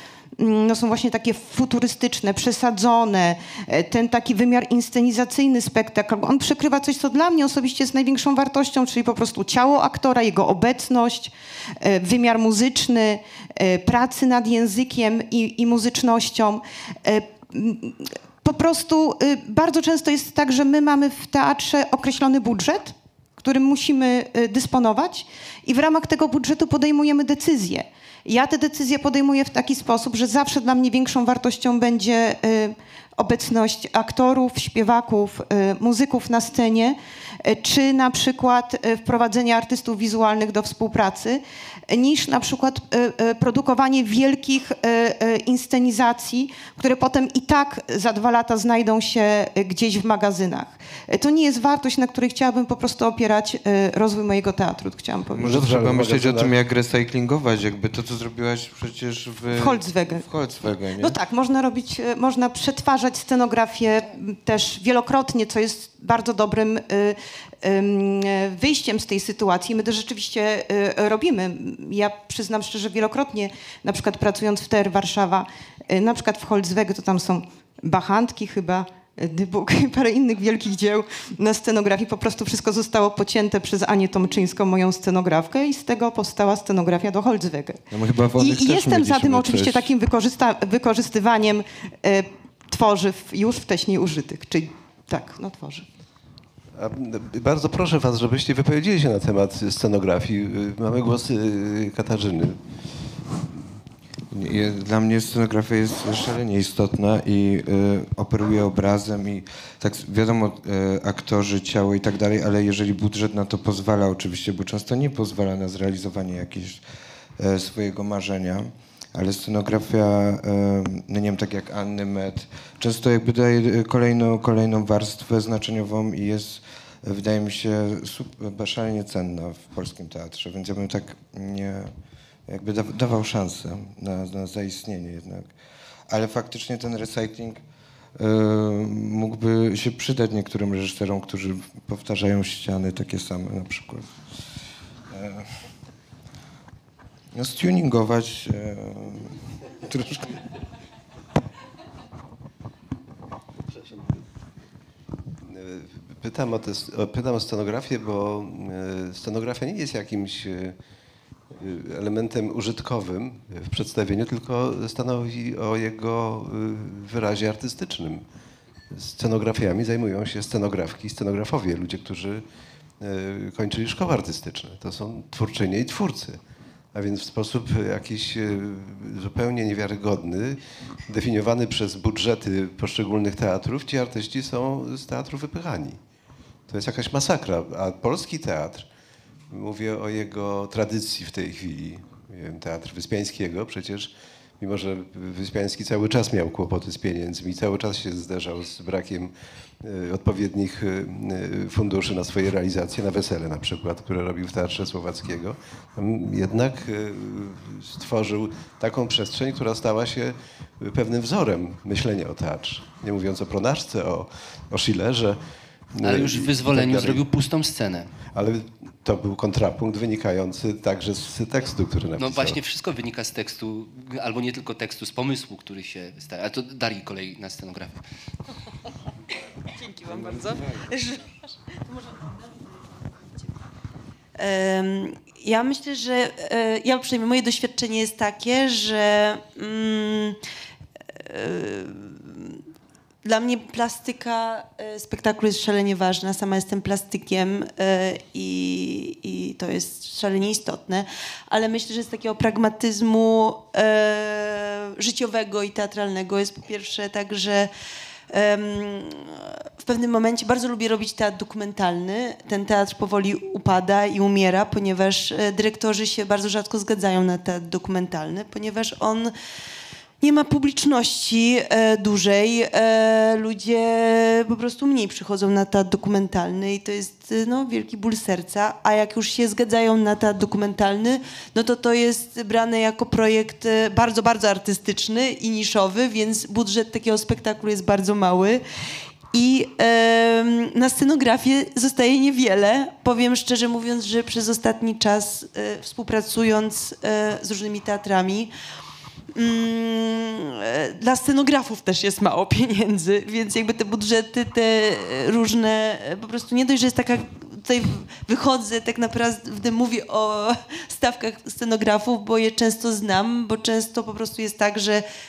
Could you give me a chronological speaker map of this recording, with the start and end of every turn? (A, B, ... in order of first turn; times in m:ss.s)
0:00.4-0:55.5 A
0:55.3-1:01.1 B
0:55.4-0:56.5 C
0:59.5-1:00.2 A
1:01.0-1:27.8 A
1:27.9-1:29.9 B
1:28.4-1:35.8 A
1:36.8-1:42.6 C
1:44.3-1:56.8 B
1:57.4-2:11.9 B
2:12.5-2:15.5 B
2:16.1-2:17.6 B
2:18.2-2:24.1 B
2:25.1-2:25.5 B
2:27.3-2:30.4 B
2:35.4-2:40.8 C
2:41.5-2:48.2 C
2:48.9-2:52.4 C
2:53.0-2:56.4 C
2:56.9-3:06.0 C
3:06.7-3:08.9 C
3:09.5-3:19.3 C
3:19.8-3:35.4 C
3:35.9-3:37.2 C
3:36.0-3:38.1 D
3:38.3-3:42.6 C
3:42.2-3:48.0 D
3:54.4-4:00.4 E
4:01.2-4:02.6 E
4:03.2-4:17.7 E
4:18.3-4:29.3 E
4:30.2-4:48.6 E
4:49.3-4:58.5 E
4:59.3-5:15.0 E